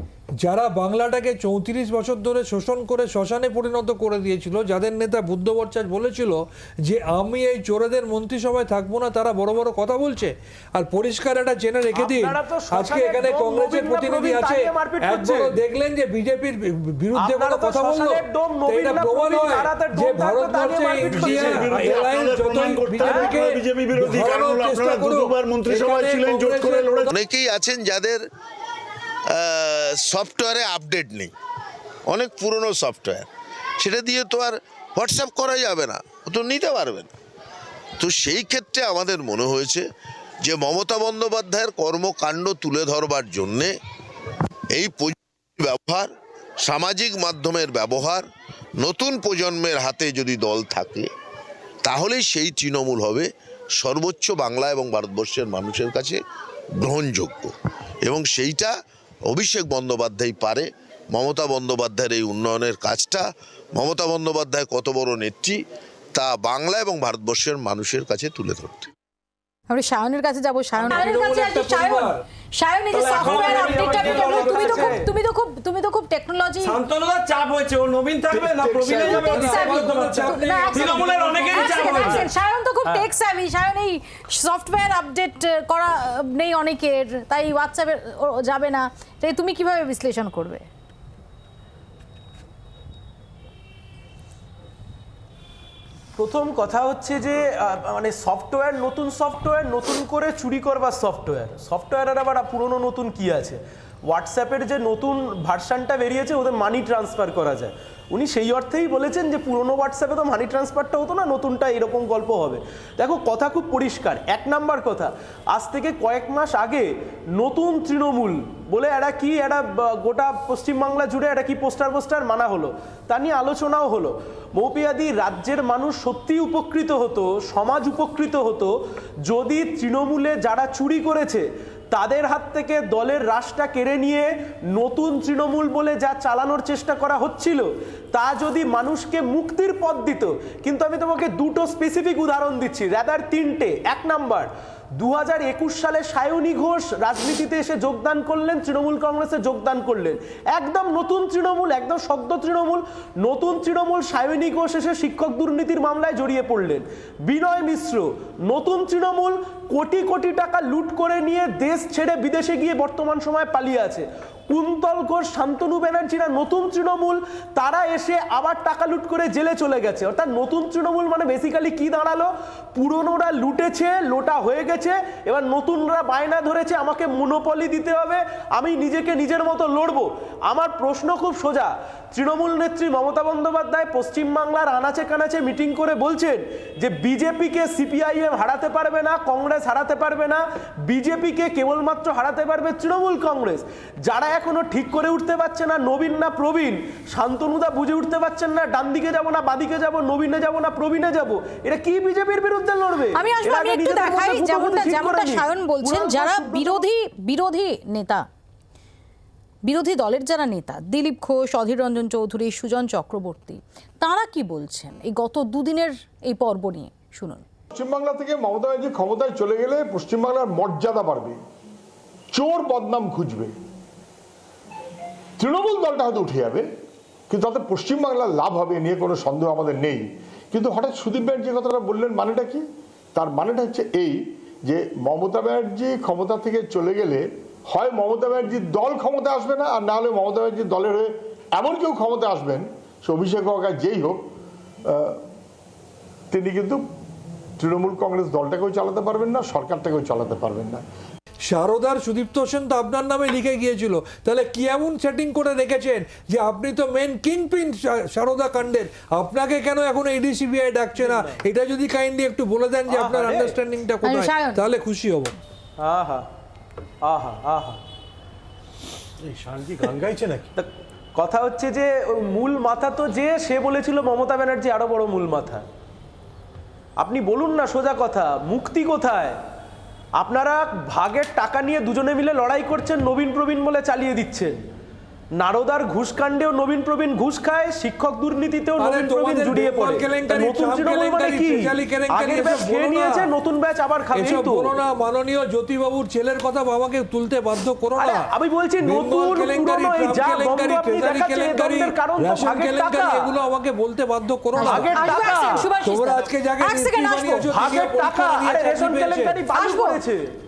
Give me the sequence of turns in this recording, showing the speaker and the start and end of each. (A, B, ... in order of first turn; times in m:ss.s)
0:00.4-0:27.1 A
0:11.9-0:15.6 B
0:17.2-0:21.7 B
0:21.1-0:27.1 C
0:27.1-0:28.2 D
0:29.3-0:31.3 D
0:32.1-0:33.3 D
0:33.8-0:37.1 D
0:38.0-0:39.8 D
0:40.4-0:43.7 D
0:44.8-0:46.1 D
0:46.6-0:48.2 D
0:48.8-0:51.1 D
0:51.8-0:53.3 D
0:53.8-0:56.2 D
0:56.8-0:57.5 D
0:58.0-0:58.7 D
0:59.3-1:03.2 D
1:03.8-1:05.6 D
1:06.1-1:08.9 D
1:09.7-1:12.1 E
1:10.8-1:12.2 A
1:12.6-1:16.8 E
1:12.9-1:14.9 A
1:13.1-1:15.1 B
1:16.6-1:22.3 F
1:18.6-1:19.2 C
1:18.8-1:30.7 E
1:18.9-1:22.2 A
1:36.2-2:08.7 B
2:09.3-3:26.8 B
3:23.1-3:28.3 E
3:29.7-3:37.4 E
3:37.7-3:41.4 G
3:42.3-3:43.5 G
3:45.4-3:46.7 G
3:47.3-3:52.6 G
3:53.2-4:04.2 G
4:04.9-4:05.2 G
4:06.3-4:06.8 G
4:07.6-4:10.8 G
4:11.5-4:25.4 A
4:21.0-4:21.4 B
4:22.9-4:23.6 B
4:24.0-4:24.6 E
4:25.8-4:26.3 B
4:27.0-4:27.8 B
4:29.2-4:30.4 C
4:30.6-4:35.7 B
4:37.0-4:39.4 B
4:40.2-4:44.6 B
4:45.4-4:54.7 B
4:48.8-4:53.3 A
4:54.1-4:58.3 A
4:58.0-5:03.3 B
4:58.8-5:09.4 A
5:04.6-5:07.4 E
5:04.6-5:05.7 B
5:07.5-5:10.3 B
5:09.5-5:10.0 E